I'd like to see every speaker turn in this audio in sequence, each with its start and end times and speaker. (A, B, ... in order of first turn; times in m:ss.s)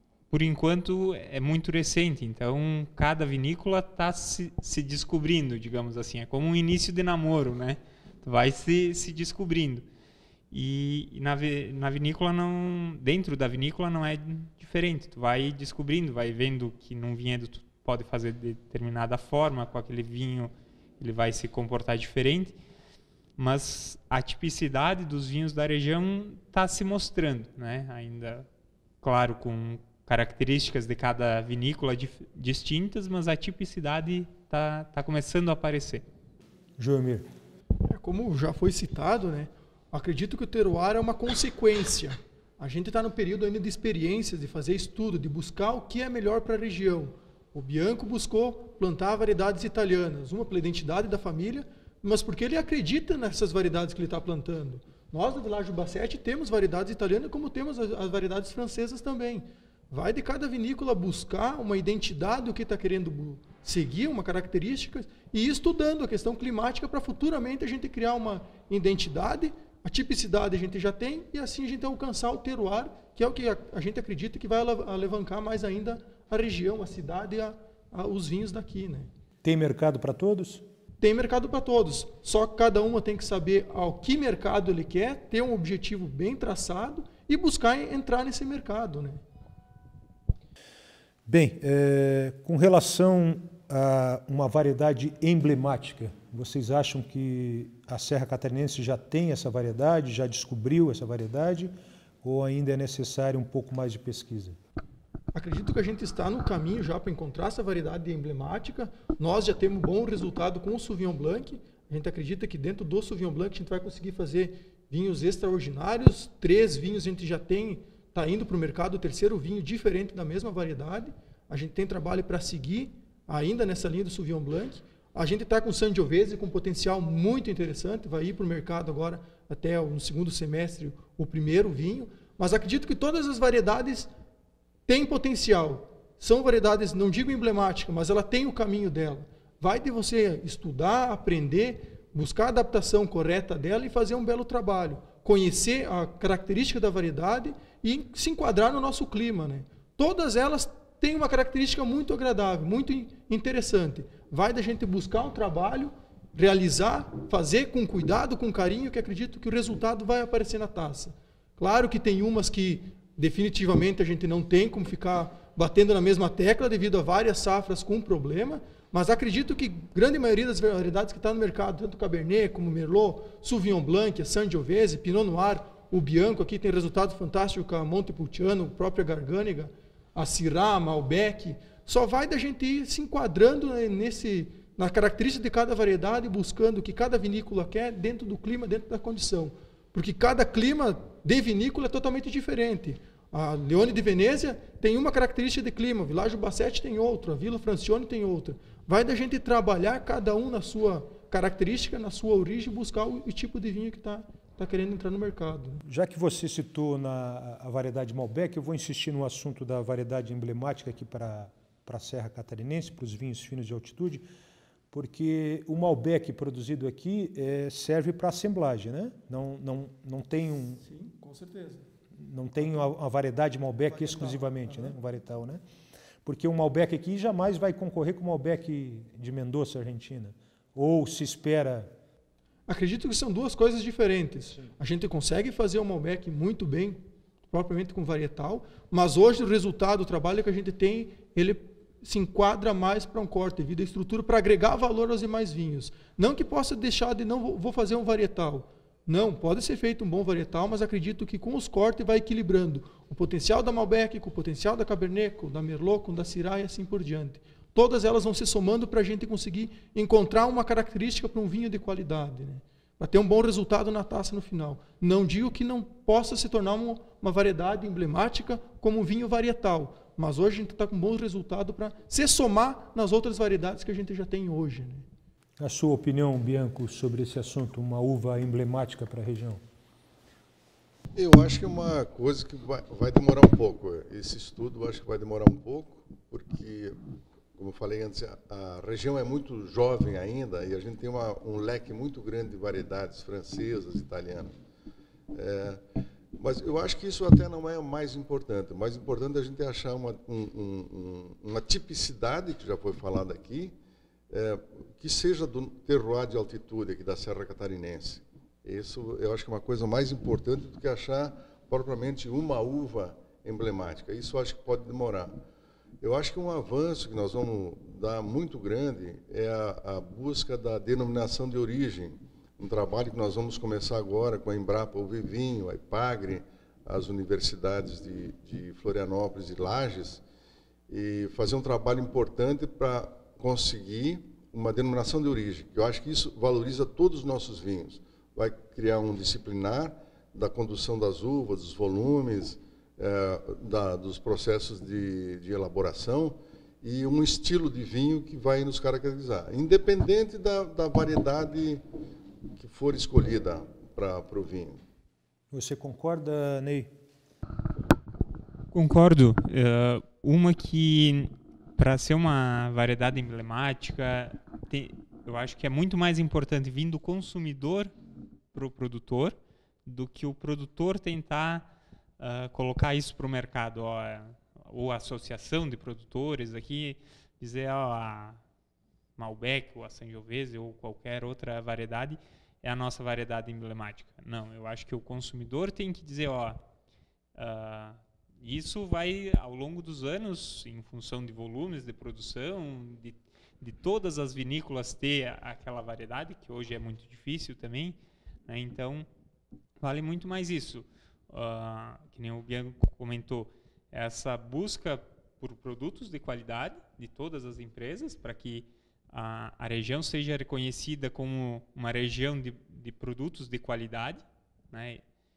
0:00.3-0:09.9 A
0:10.5-0:22.6 A
0:23.4-0:28.5 A
0:29.0-0:36.0 A
0:36.8-0:37.3 B
0:37.8-1:19.1 C
1:19.4-1:20.6 B
1:21.0-1:29.2 C
1:31.3-1:44.6 B
1:45.3-2:14.1 C
2:14.9-3:25.8 C
3:25.8-3:34.2 B
3:34.9-3:40.8 B
3:40.8-3:41.9 C
3:42.2-3:45.6 B
3:43.9-3:44.9 C
3:46.2-3:51.9 B
3:52.7-4:35.1 C
4:35.6-4:39.6 B
4:41.2-4:47.0 D
4:47.6-4:54.5 D
4:55.3-4:55.8 D
4:56.4-5:03.7 D
5:04.3-5:15.3 D
5:16.0-5:30.2 D
5:30.9-5:51.8 D
5:52.6-5:54.8 D
5:55.5-5:56.9 B
5:58.7-6:07.9 A
6:08.5-6:11.7 A
6:12.2-6:18.4 A
6:19.2-6:26.6 A
6:27.4-6:39.1 A
6:39.8-6:55.0 A